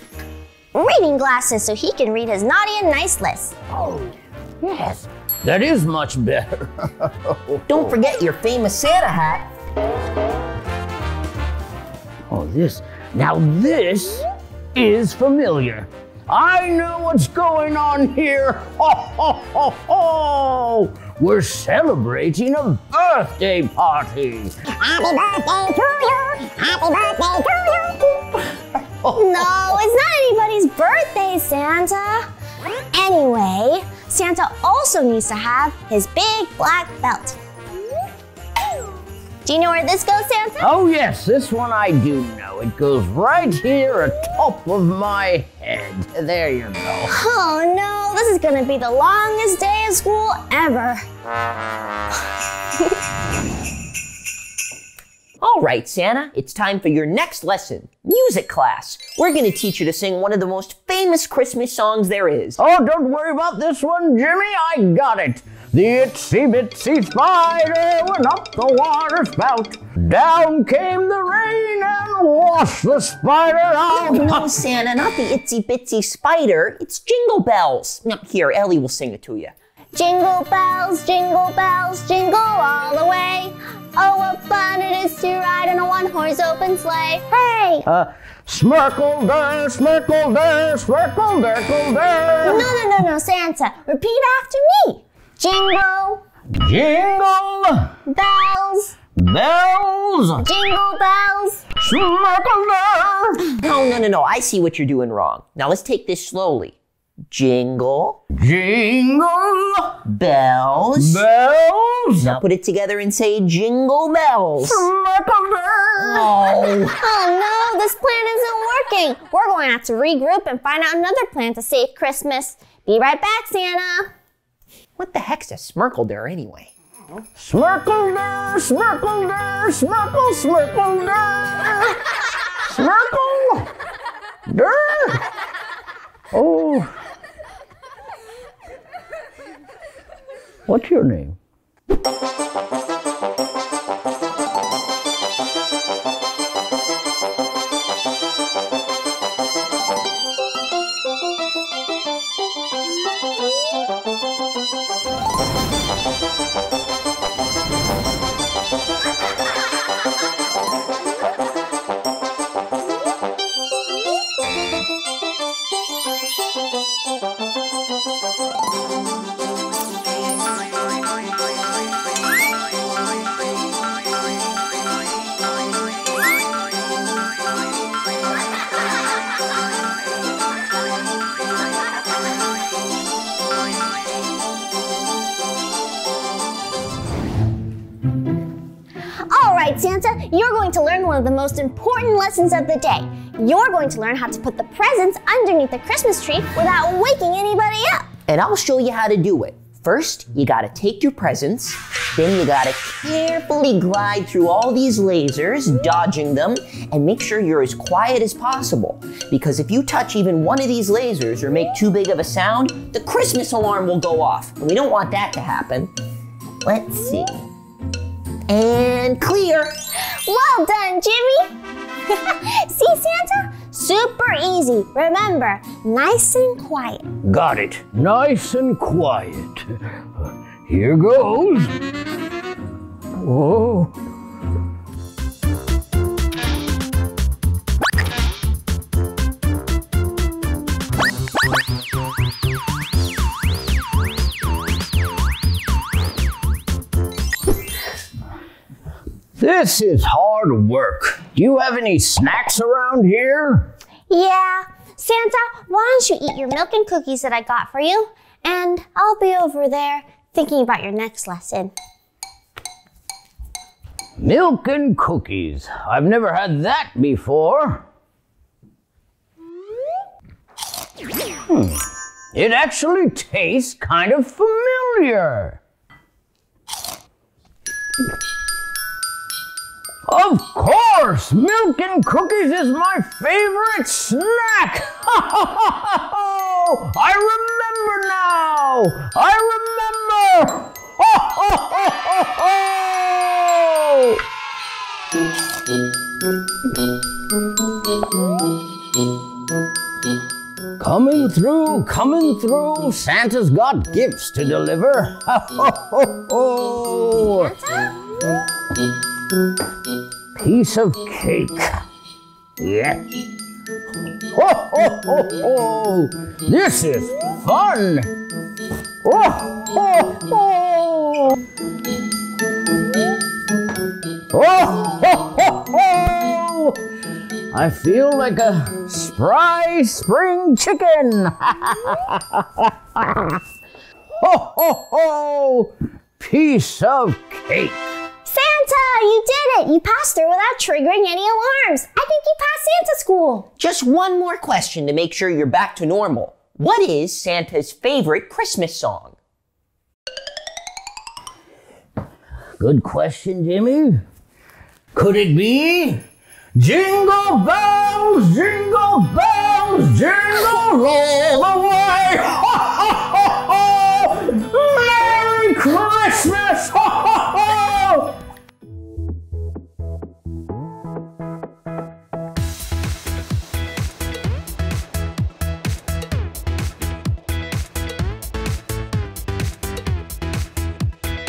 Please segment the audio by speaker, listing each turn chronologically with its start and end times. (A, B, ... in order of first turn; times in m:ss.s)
0:00.7-0:03.6 A
0:03.7-0:07.9 B
0:07.7-0:09.5 C
0:12.3-0:24.7 B
0:24.8-0:27.5 C
0:26.1-0:28.0 A
0:29.1-0:32.3 A
0:32.9-0:37.4 A
0:39.4-0:40.7 A
0:40.6-0:47.1 B
0:47.1-0:51.0 A
0:55.4-1:02.6 C
1:02.6-1:14.5 B
1:13.9-1:19.5 C
1:19.9-1:27.9 A
1:27.8-1:32.7 B
1:32.4-1:36.2 A
1:36.5-1:37.9 B
1:38.1-1:39.0 A
1:39.2-1:40.5 B
1:40.4-1:41.6 A
1:41.8-1:43.6 B
1:43.6-1:46.8 C
1:47.3-1:48.2 C
1:48.3-1:50.0 B
1:50.0-1:51.2 C
1:51.0-1:52.4 B
1:52.2-1:54.8 C
1:54.6-1:57.0 B
1:57.0-2:04.1 A
2:05.0-2:06.7 C
2:07.4-2:12.0 B
2:12.6-2:13.7 B
2:14.5-2:15.2 B
2:16.3-2:16.9 B
2:20.7-2:21.4 B
3:09.3-3:18.1 A
3:18.3-3:35.9 C
3:36.6-3:37.4 C
3:38.5-3:39.8 C
3:40.0-3:41.5 A
3:42.1-3:47.1 A
3:47.2-3:49.8 B
3:50.7-3:51.8 B
3:53.1-3:53.9 B
4:09.4-4:13.7 B
4:14.1-4:21.7 A
4:24.2-4:27.8 B
4:31.5-4:35.6 B
4:40.0-4:54.2 B
5:00.8-5:07.5 B
5:07.2-5:08.2 A
5:10.4-5:11.8 B
5:12.6-5:13.0 B
5:14.3-5:18.1 B
5:19.0-5:21.4 B
5:24.3-5:26.8 B
5:27.5-5:33.4 B
5:34.2-5:37.8 B
5:38.2-5:43.5 A
5:43.6-5:49.2 C
5:52.6-5:54.0 B
5:54.9-5:56.0 B
5:56.6-6:08.2 B